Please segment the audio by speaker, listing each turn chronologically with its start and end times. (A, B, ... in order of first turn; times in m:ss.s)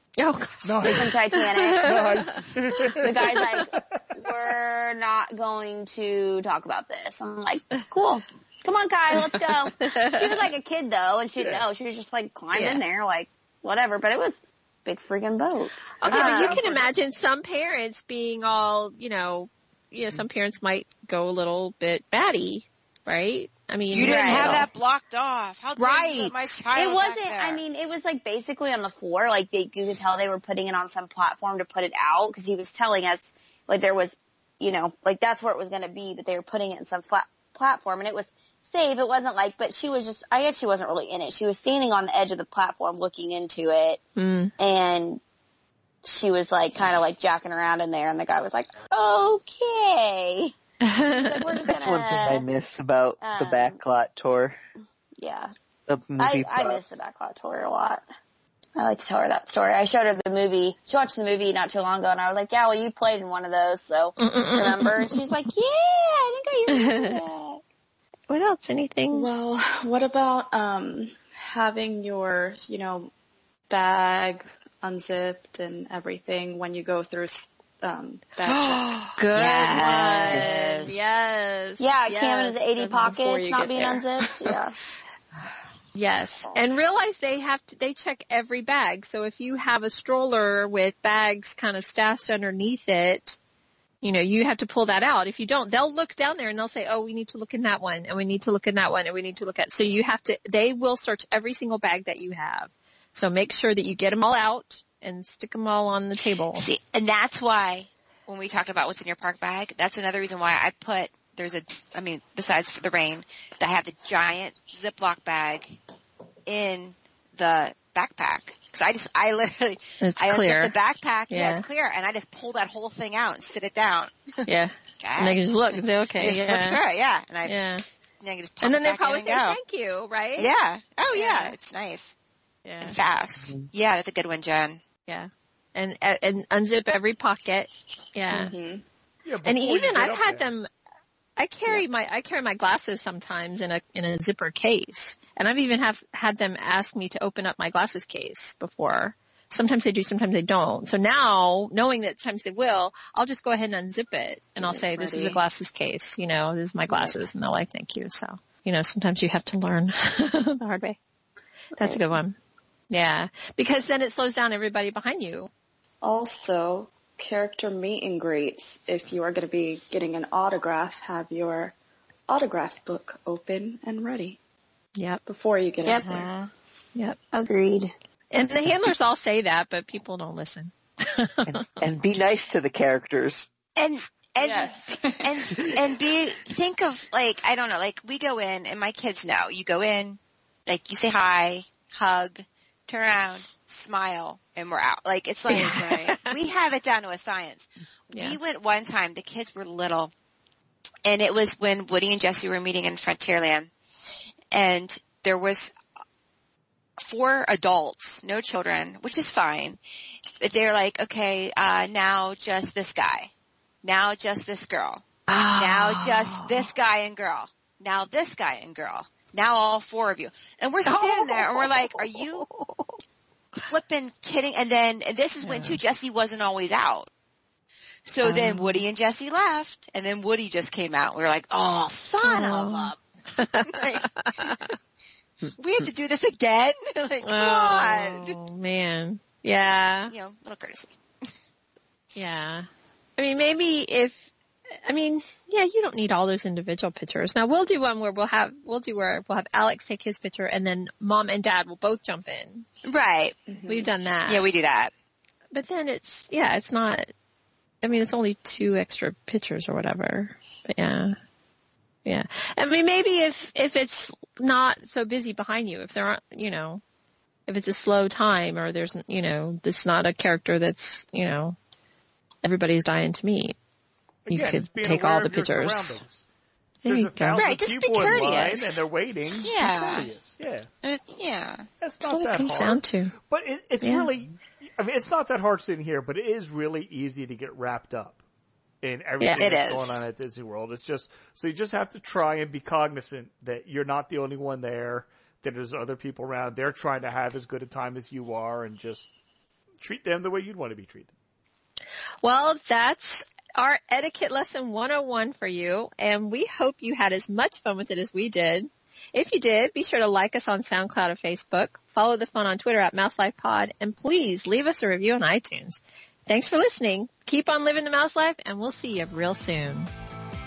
0:00.2-0:03.4 A
0:00.6-0:01.2 B
0:00.9-0:02.3 C
0:01.8-0:04.1 B
0:03.0-0:16.6 C
0:09.1-0:10.5 A
0:11.4-0:11.6 B
0:12.5-0:12.8 A
0:16.0-0:16.9 B
0:16.0-0:24.7 A
0:23.9-0:27.6 D
0:24.0-0:24.7 C
0:25.8-0:44.0 C
0:44.2-0:44.5 A
0:44.6-0:45.2 C
0:46.0-0:50.5 C
0:50.8-0:51.7 A
0:51.1-0:52.4 C
0:51.7-0:54.6 E
0:53.2-0:53.8 C
0:55.2-0:55.5 C
0:55.9-0:56.8 E
0:56.2-0:58.0 C
0:58.8-1:07.6 C
1:04.2-1:05.2 A
1:06.7-1:07.2 A
1:08.3-1:09.3 A
1:09.1-1:13.1 F
1:13.7-1:19.1 F
1:18.4-1:21.3 D
1:19.2-1:24.0 A
1:21.8-1:24.8 C
1:23.0-1:23.9 F
1:26.0-1:33.4 A
1:34.0-1:46.7 A
1:46.6-1:55.8 D
1:56.5-2:04.3 D
2:00.0-2:00.7 A
2:01.3-2:01.6 A
2:04.5-2:06.8 A
2:05.0-2:07.6 D
2:07.4-2:07.8 A
2:08.2-2:09.6 D
2:08.6-2:10.5 A
2:10.4-2:12.2 D
2:11.1-2:11.6 A
2:12.6-2:13.0 A
2:12.8-2:14.8 D
2:15.1-2:18.5 A
2:18.3-2:18.8 F
2:19.2-2:20.5 B
2:19.4-2:20.7 A
2:21.4-2:41.0 A
2:34.6-2:35.4 F
2:36.9-2:37.2 F
2:41.8-2:42.4 A
2:42.9-2:45.5 A
2:46.0-2:51.8 F
2:52.3-2:54.4 F
2:55.0-2:55.2 A
2:55.3-2:56.3 F
2:56.0-2:56.5 D
2:57.3-2:57.9 C
2:58.3-3:01.9 A
3:01.4-3:03.5 E
3:03.8-3:20.1 D
3:04.4-3:04.7 C
3:15.5-3:16.4 A
3:18.1-3:18.4 A
3:21.0-3:23.7 D
3:24.5-3:25.7 D
3:27.0-3:29.8 D
3:30.4-3:33.3 D
3:33.8-3:35.0 D
3:35.3-3:36.7 A
3:35.5-3:42.4 D
3:40.8-3:43.0 A
3:43.7-3:47.1 D
3:45.4-3:45.8 A
3:48.1-3:53.0 D
3:48.2-3:48.9 A
3:52.2-3:54.7 A
3:53.7-3:54.7 D
3:55.6-3:58.4 D
3:57.2-4:00.1 A
4:00.1-4:00.9 D
4:02.2-4:04.3 A
4:04.8-4:12.7 A
4:12.8-4:13.4 D
4:13.6-4:13.9 F
4:13.7-4:14.5 A
4:14.3-4:14.9 D
4:15.5-4:17.1 A
4:17.8-4:21.2 A
4:22.0-4:26.8 A
4:27.5-4:31.6 A
4:32.4-4:33.6 A
4:34.3-4:36.2 B
4:34.3-4:36.0 A
4:36.8-4:40.7 B
4:36.8-4:37.5 A
4:37.4-4:38.9 D
4:39.4-4:40.1 D
4:40.8-4:41.7 D
4:41.8-4:48.2 B
4:42.0-4:43.1 A
4:43.8-4:44.1 A
4:48.8-4:59.1 B
4:49.4-4:50.0 D
4:59.8-5:01.1 B
5:02.2-5:19.9 A